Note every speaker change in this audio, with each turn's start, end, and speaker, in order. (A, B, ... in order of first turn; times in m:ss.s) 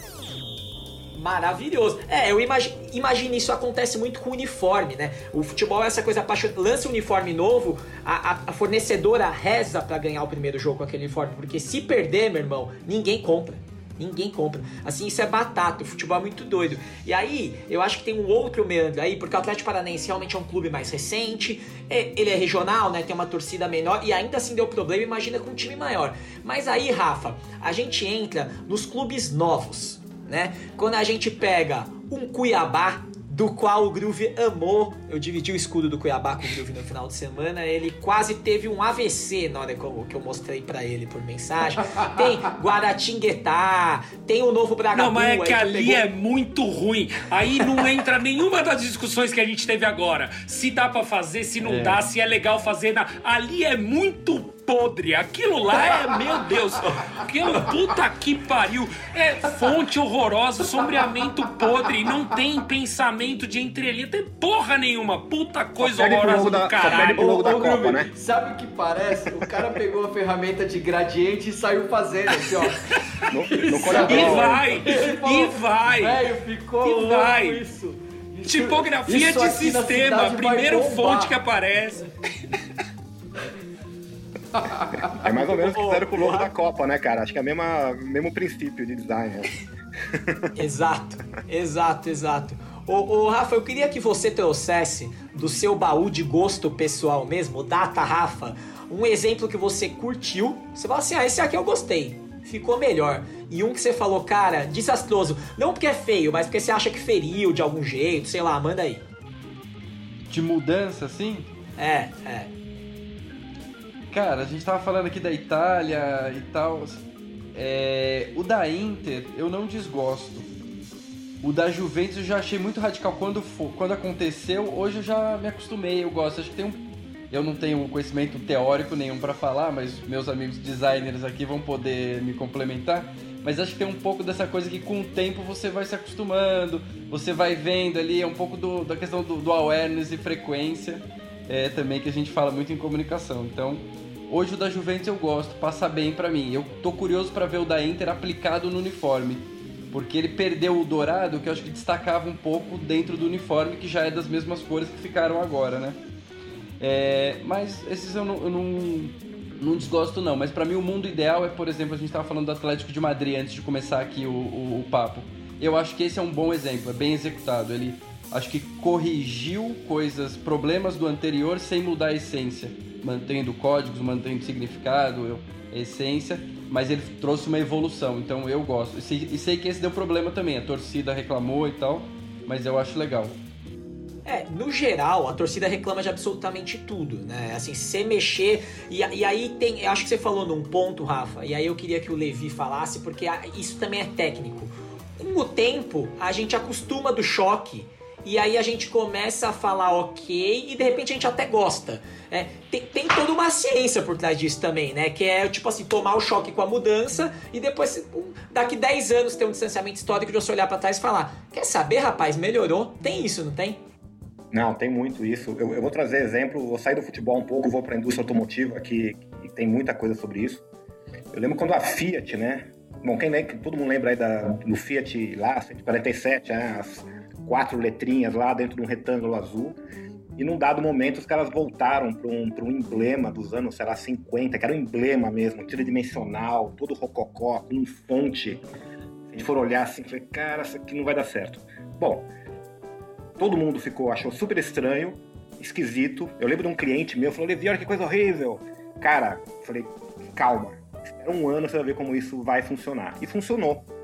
0:01.1-0:46.0 A
0:44.9-1:07.3 B
0:51.6-0:52.0 C
1:05.8-1:08.1 D
1:06.8-1:12.8 E
1:13.3-1:14.7 D
1:13.6-1:21.4 E
1:13.7-1:16.3 B
1:16.8-1:17.6 B
1:18.4-1:22.1 B
1:25.1-1:29.5 D
1:25.3-1:26.5 A
1:30.1-1:30.4 D
1:30.6-1:49.0 A
1:50.3-1:51.5 C
1:51.8-1:52.5 A
1:54.1-1:57.0 C
1:57.5-2:00.5 C
2:01.4-2:36.0 C
2:36.8-3:03.3 C
3:04.2-3:33.8 A
3:34.5-3:40.6 D
3:41.3-3:49.8 D
3:50.4-3:58.6 D
3:59.3-4:02.3 D
4:03.4-4:13.9 D